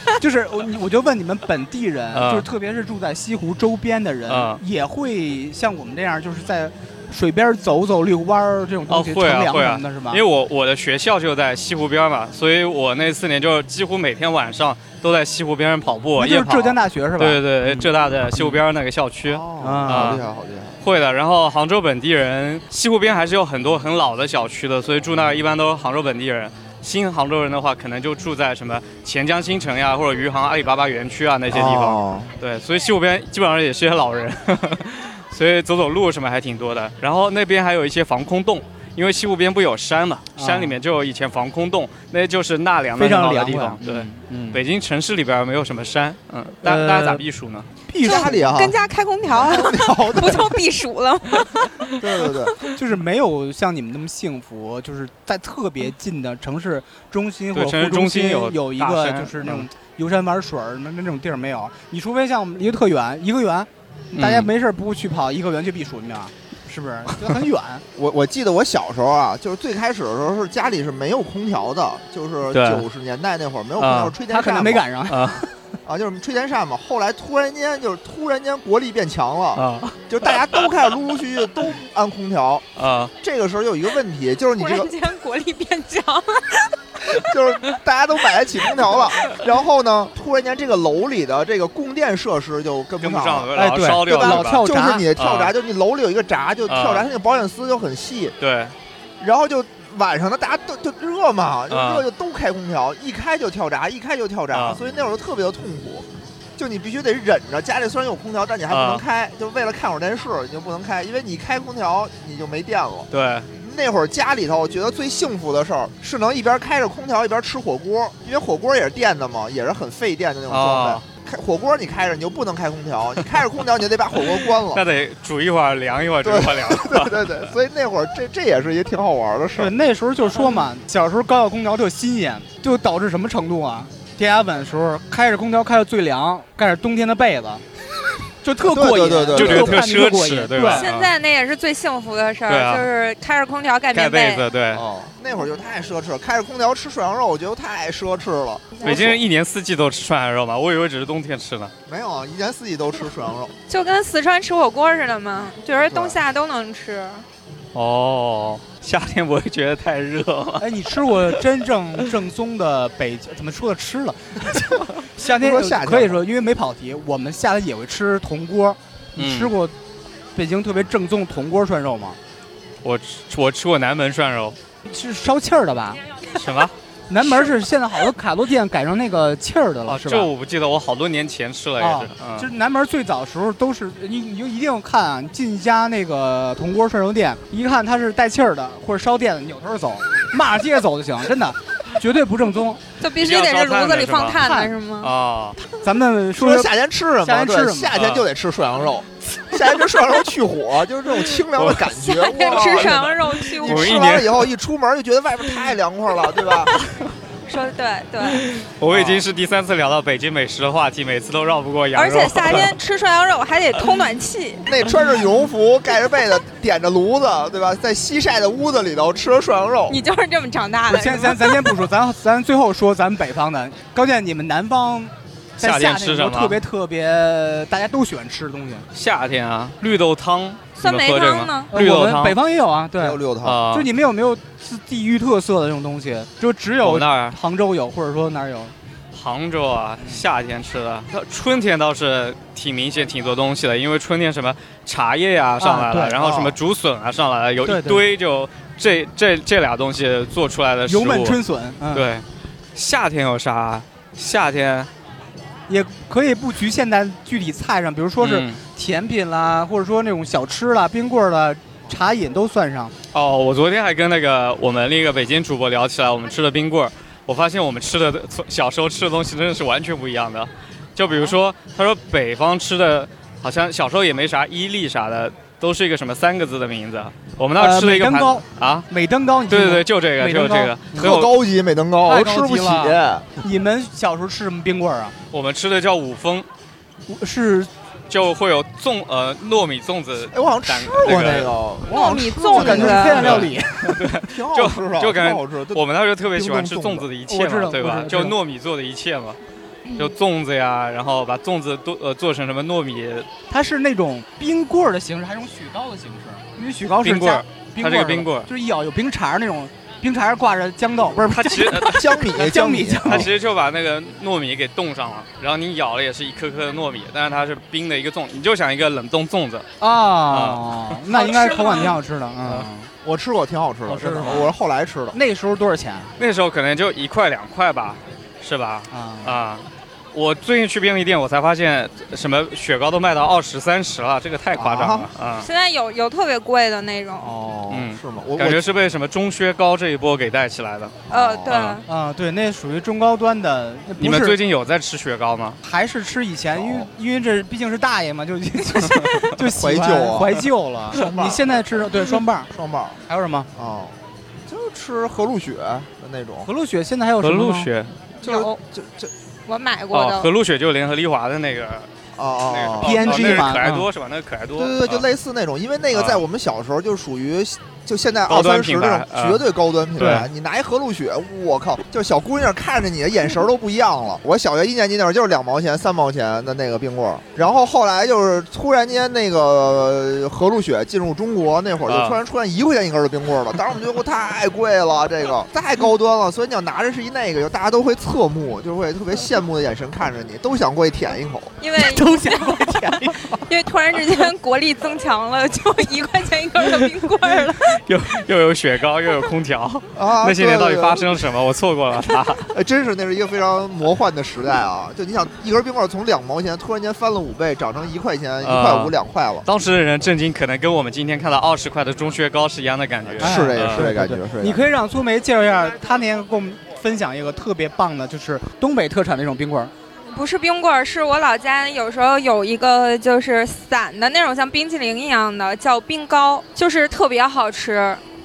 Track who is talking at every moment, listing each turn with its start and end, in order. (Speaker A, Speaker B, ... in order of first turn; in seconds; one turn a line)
Speaker A: 0.2-10.2
Speaker B: 2.1-2.5
Speaker B: 4.3-4.6
Speaker B: 8.9-20.2
Speaker A: 16.2-18.6
Speaker C: 19.3-20.8
Speaker A: 19.6-20.2
Speaker B: 20.8-47.7
Speaker C: 31.5-32.3
Speaker A: 40.4-40.8
Speaker A: 43.0-44.6
Speaker A: 46.6-47.2
Speaker A: 47.9-48.5
Speaker C: 48.0-48.8
Speaker D: 48.0-51.7
Speaker C: 49.3-50.5
Speaker C: 52.0-52.6
Speaker A: 52.7-67.8
Speaker B: 57.5-59.7
Speaker B: 64.2-64.5
Speaker C: 68.0-74.9
Speaker B: 72.5-72.9
Speaker B: 73.8-74.2
Speaker A: 74.3-75.5
Speaker B: 75.1-75.4
Speaker C: 75.8-82.7
Speaker B: 79.5-80.0
Speaker B: 82.8-83.1
Speaker C: 83.2-84.9
Speaker D: 84.6-86.7
Speaker C: 87.1-98.4
Speaker B: 93.0-94.6
Speaker A: 93.5-95.1
Speaker B: 95.2-95.5
Speaker B: 96.7-97.0
Speaker B: 98.4-98.8
Speaker C: 99.2-106.1
Speaker B: 101.7-102.0
Speaker B: 104.5-104.8
Speaker C: 106.6-124.8
Speaker B: 108.7-109.0
Speaker B: 113.1-113.5
Speaker B: 120.5-121.0
Speaker B: 124.7-127.3
Speaker C: 126.2-129.7
Speaker A: 129.6-137.6
Speaker A: 138.4-140.9
Speaker C: 138.7-139.9
Speaker B: 139.3-141.1
Speaker D: 140.7-144.4
Speaker B: 142.5-142.9
Speaker B: 143.9-144.8
Speaker C: 144.7-149.2
Speaker D: 148.8-149.2
Speaker B: 148.8-151.7
Speaker C: 151.9-153.5
Speaker D: 153.7-157.2
Speaker C: 155.9-156.2
Speaker B: 157.8-160.7
Speaker A: 160.6-169.7
Speaker C: 165.3-166.2
Speaker B: 169.2-169.5
Speaker A: 170.3-172.2
Speaker B: 172.8-174.6
Speaker A: 174.9-176.0
Speaker B: 176.3-176.7
Speaker A: 177.1-180.3
Speaker B: 179.9-182.5
Speaker A: 181.8-192.8
Speaker D: 193.0-195.1
Speaker B: 193.2-194.4
Speaker A: 194.4-194.7
Speaker B: 195.0-195.6
Speaker A: 195.8-196.7
Speaker C: 196.4-206.7
Speaker A: 197.2-197.9
Speaker B: 197.9-198.3
Speaker B: 201.4-201.8
Speaker D: 202.0-204.0
Speaker B: 202.6-204.5
Speaker D: 207.5-208.4
Speaker B: 208.3-212.8
Speaker C: 208.9-209.2
Speaker D: 211.9-214.7
Speaker C: 214.7-220.0
Speaker D: 219.9-221.7
Speaker A: 220.9-228.9
Speaker B: 225.6-226.6
Speaker B: 228.9-232.4
Speaker D: 230.8-231.7
Speaker A: 231.7-233.2
Speaker C: 233.0-233.6
Speaker B: 233.4-233.9
Speaker A: 233.7-238.7
Speaker B: 236.8-237.3
Speaker B: 239.1-251.4
Speaker A: 245.6-246.5
Speaker A: 247.6-248.0
Speaker A: 250.9-252.1
Speaker B: 251.9-254.9
Speaker A: 255.7-262.9
Speaker B: 258.2-258.6
Speaker B: 263.1-278.9
Speaker A: 277.6-281.2
Speaker B: 279.5-281.4
Speaker C: 281.0-283.3
Speaker A: 282.1-285.2
Speaker B: 285.3-286.5
Speaker A: 287.1-287.7
Speaker B: 288.1-291.5
Speaker C: 290.3-293.5
Speaker A: 291.1-294.1
Speaker D: 291.9-293.4
Speaker B: 293.0-299.4
Speaker C: 294.1-295.8
Speaker C: 296.3-297.1
Speaker A: 297.3-298.4
Speaker B: 299.9-303.3
Speaker A: 303.5-313.3
Speaker B: 307.0-308.5
Speaker B: 311.2-312.2
Speaker C: 311.8-313.3
Speaker B: 313.1-319.7
Speaker A: 319.8-322.9
Speaker B: 320.3-321.9
Speaker D: 321.3-321.9
Speaker C: 323.0-325.2
Speaker A: 323.9-324.5
Speaker A: 325.1-326.1
Speaker B: 326.2-335.5
Speaker A: 328.9-329.4
Speaker C: 334.6-335.1
Speaker D: 335.4-337.3
Speaker C: 337.2-338.6
Speaker B: 337.7-341.8
Speaker C: 341.1-341.5
Speaker D: 341.1-341.8
Speaker A: 341.9-344.4
Speaker B: 344.0-345.6
Speaker A: 345.6-352.5
Speaker C: 346.6-346.9
Speaker C: 349.5-351.6
Speaker C: 352.5-353.0
Speaker A: 353.1-353.5
Speaker C: 353.6-354.0
Speaker C: 354.5-356.5
Speaker A: 356.4-357.7
Speaker B: 357.2-358.0
Speaker C: 358.2-359.1
Speaker D: 358.2-358.6
Speaker D: 359.5-360.3
Speaker B: 359.9-361.9
Speaker C: 362.2-363.4
Speaker B: 362.4-365.1
Speaker A: 362.8-363.9
Speaker C: 364.6-391.6
Speaker B: 365.9-366.2
Speaker B: 368.3-369.4
Speaker A: 370.0-370.3
Speaker B: 381.9-382.2
Speaker D: 391.6-392.7
Speaker A: 391.8-393.4
Speaker D: 393.5-397.8
Speaker B: 397.7-402.5
Speaker C: 399.9-401.1
Speaker C: 402.5-409.5
Speaker B: 408.4-413.9
Speaker C: 413.2-414.6
Speaker A: 413.2-419.7
Speaker D: 420.1-428.0